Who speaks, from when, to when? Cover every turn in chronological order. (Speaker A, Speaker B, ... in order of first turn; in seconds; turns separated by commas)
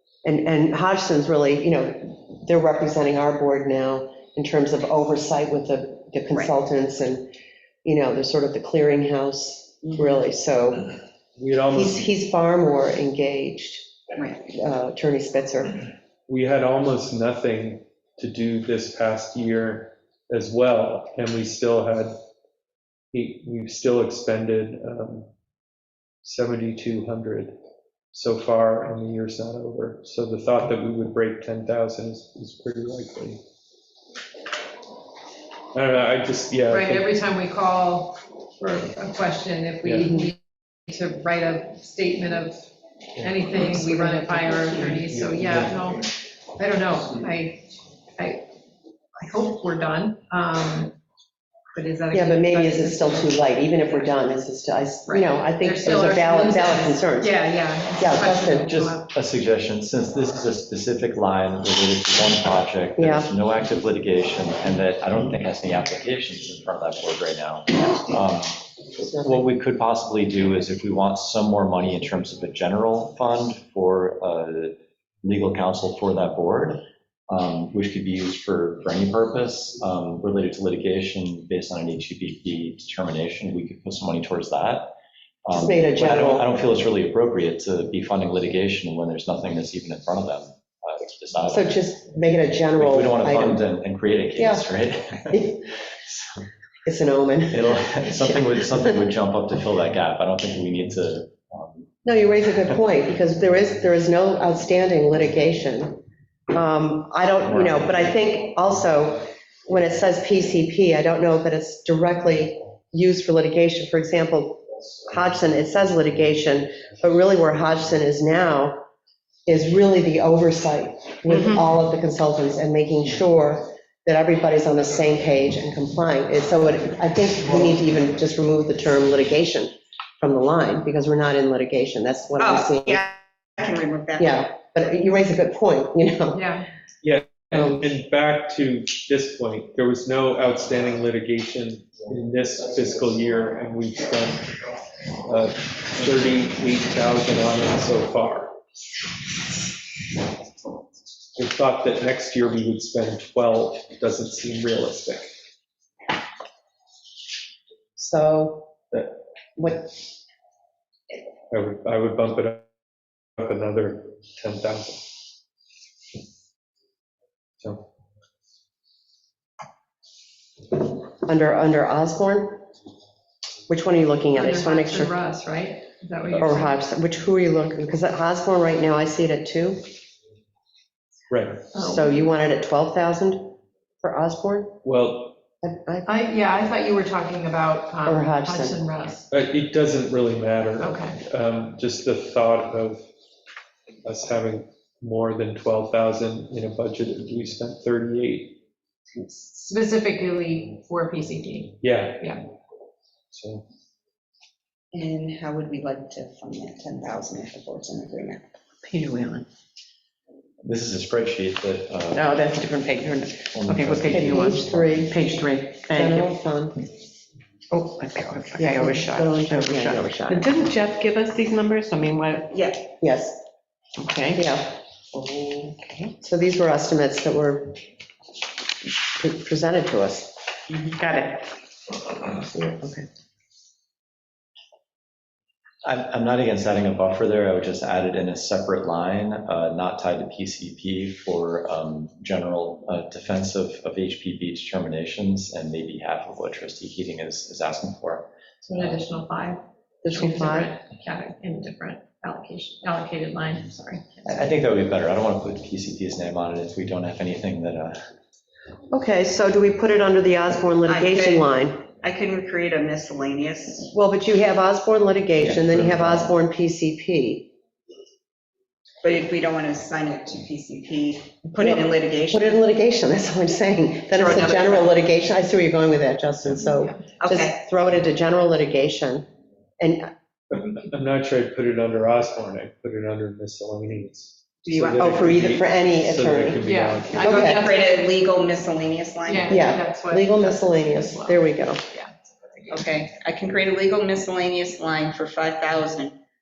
Speaker A: 0.2-7.3, Speaker A: 7.8-10.9, Speaker B: 11.4-12.1, Speaker A: 11.7-13.9, Speaker C: 14.2-14.5, Speaker A: 14.5-15.8, Speaker B: 16.3-22.1, Speaker B: 23.1-25.3, Speaker B: 26.2-27.6, Speaker B: 28.1-33.4, Speaker B: 35.7-37.1, Speaker D: 36.7-42.6, Speaker B: 39.8-40.1, Speaker D: 43.2-48.5, Speaker E: 43.6-44.9, Speaker B: 45.1-45.7, Speaker D: 49.2-51.0, Speaker D: 51.7-54.3, Speaker A: 52.1-57.4, Speaker D: 55.1-59.1, Speaker A: 58.0-58.7, Speaker F: 58.6-84.9, Speaker A: 63.0-63.3, Speaker F: 85.5-91.8, Speaker A: 85.5-86.5, Speaker A: 91.5-93.6, Speaker F: 92.8-96.5, Speaker A: 94.4-94.7, Speaker A: 95.3-95.6, Speaker A: 96.9-98.7, Speaker F: 97.5-101.9, Speaker A: 102.0-118.8, Speaker F: 107.5-108.1, Speaker A: 119.5-133.1, Speaker C: 132.4-134.4, Speaker A: 134.2-136.4, Speaker D: 136.3-136.7, Speaker B: 137.0-144.5, Speaker B: 145.3-148.6, Speaker B: 151.4-155.3, Speaker A: 158.0-159.9, Speaker B: 161.5-162.7, Speaker B: 163.4-165.1, Speaker A: 171.2-172.7, Speaker A: 173.7-175.1, Speaker D: 174.3-176.8, Speaker A: 176.4-179.8, Speaker B: 181.3-181.7, Speaker D: 181.7-182.3, Speaker A: 181.8-184.8, Speaker B: 184.8-185.4, Speaker A: 185.6-186.2, Speaker D: 186.1-189.2, Speaker A: 188.1-188.8, Speaker B: 189.3-193.1, Speaker D: 190.8-191.2, Speaker B: 194.1-198.6, Speaker D: 199.4-202.4, Speaker B: 201.8-202.3, Speaker B: 203.3-203.6, Speaker C: 204.9-208.4, Speaker E: 208.8-209.5, Speaker F: 210.6-212.3, Speaker E: 212.1-216.3, Speaker F: 213.5-215.0, Speaker A: 214.1-215.2, Speaker A: 215.9-216.8, Speaker E: 217.7-222.5, Speaker A: 218.6-220.5, Speaker C: 222.5-222.8, Speaker A: 223.0-223.4, Speaker E: 224.0-224.4, Speaker A: 224.3-224.7, Speaker E: 225.1-226.2, Speaker A: 226.2-227.8, Speaker A: 229.1-230.4, Speaker E: 230.9-231.5, Speaker A: 232.5-233.1, Speaker F: 235.8-248.3, Speaker D: 248.6-254.3, Speaker A: 250.0-250.7, Speaker F: 254.3-258.0, Speaker A: 258.9-261.8, Speaker C: 260.9-263.9, Speaker A: 263.9-267.5, Speaker F: 265.4-266.3, Speaker C: 269.0-272.6, Speaker A: 271.6-279.3, Speaker C: 274.1-274.9, Speaker C: 277.2-277.6, Speaker A: 279.8-280.1, Speaker B: 280.5-287.2, Speaker C: 284.6-285.4, Speaker A: 285.0-287.6, Speaker D: 286.6-288.2, Speaker C: 287.2-289.8, Speaker D: 289.2-292.8, Speaker A: 289.5-291.8, Speaker C: 292.7-296.1